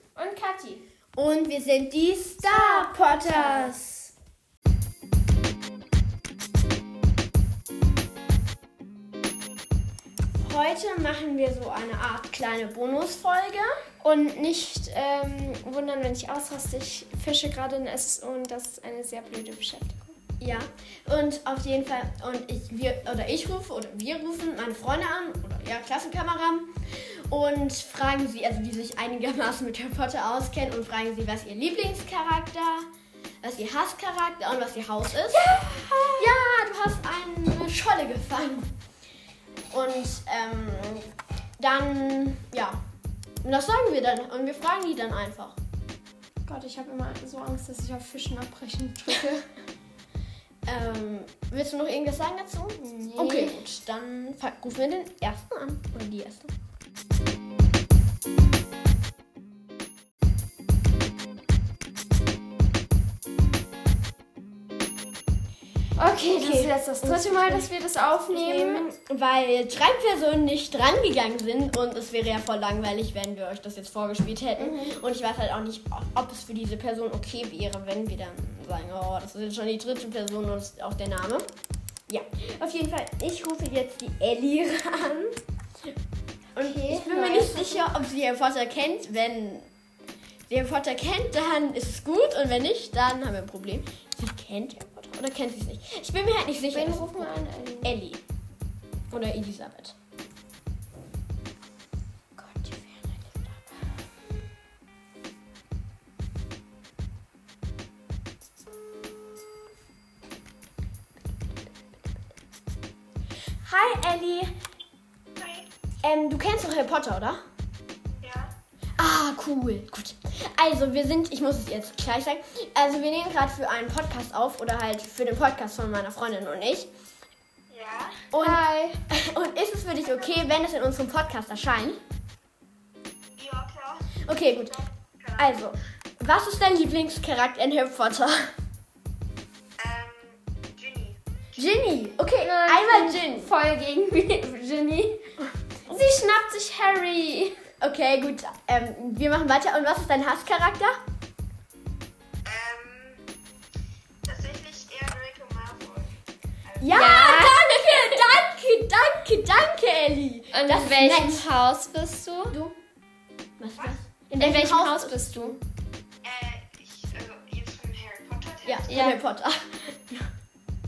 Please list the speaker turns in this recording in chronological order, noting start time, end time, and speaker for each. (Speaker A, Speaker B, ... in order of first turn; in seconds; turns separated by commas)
Speaker A: 0.2-0.8, Speaker B: 1.2-3.8, Speaker A: 2.5-4.1, Speaker B: 10.4-13.7, Speaker A: 14.0-20.1, Speaker B: 20.4-26.7, Speaker B: 27.3-32.9, Speaker B: 33.4-38.7, Speaker A: 35.4-36.1, Speaker B: 39.7-41.1, Speaker B: 41.6-42.8, Speaker B: 43.4-45.6, Speaker A: 46.5-49.5, Speaker B: 50.7-56.5, Speaker A: 52.8-53.6, Speaker A: 66.0-68.8, Speaker B: 66.4-67.7, Speaker B: 68.3-81.5, Speaker A: 74.6-75.0, Speaker B: 82.1-85.3, Speaker B: 86.6-89.7, Speaker A: 86.6-87.9, Speaker B: 90.5-98.2, Speaker A: 96.7-97.9, Speaker B: 99.1-100.0, Speaker A: 102.4-103.8, Speaker B: 113.7-114.5, Speaker B: 116.0-117.4, Speaker C: 118.2-118.5, Speaker B: 119.0-126.9, Speaker C: 127.7-128.2, Speaker B: 128.3-132.0, Speaker A: 128.4-129.0, Speaker C: 133.4-134.1, Speaker B: 134.3-134.8, Speaker C: 135.2-135.5, Speaker B: 135.4-138.5, Speaker C: 139.8-141.2, Speaker B: 141.6-143.5, Speaker A: 142.4-145.3, Speaker A: 145.9-147.7, Speaker B: 147.8-151.0, Speaker C: 152.4-153.2, Speaker C: 154.3-156.1, Speaker B: 156.8-161.5, Speaker A: 156.9-158.2, Speaker A: 160.5-162.6, Speaker B: 163.6-165.6, Speaker A: 164.4-165.6, Speaker C: 166.2-168.8, Speaker B: 168.7-170.3, Speaker A: 168.9-169.2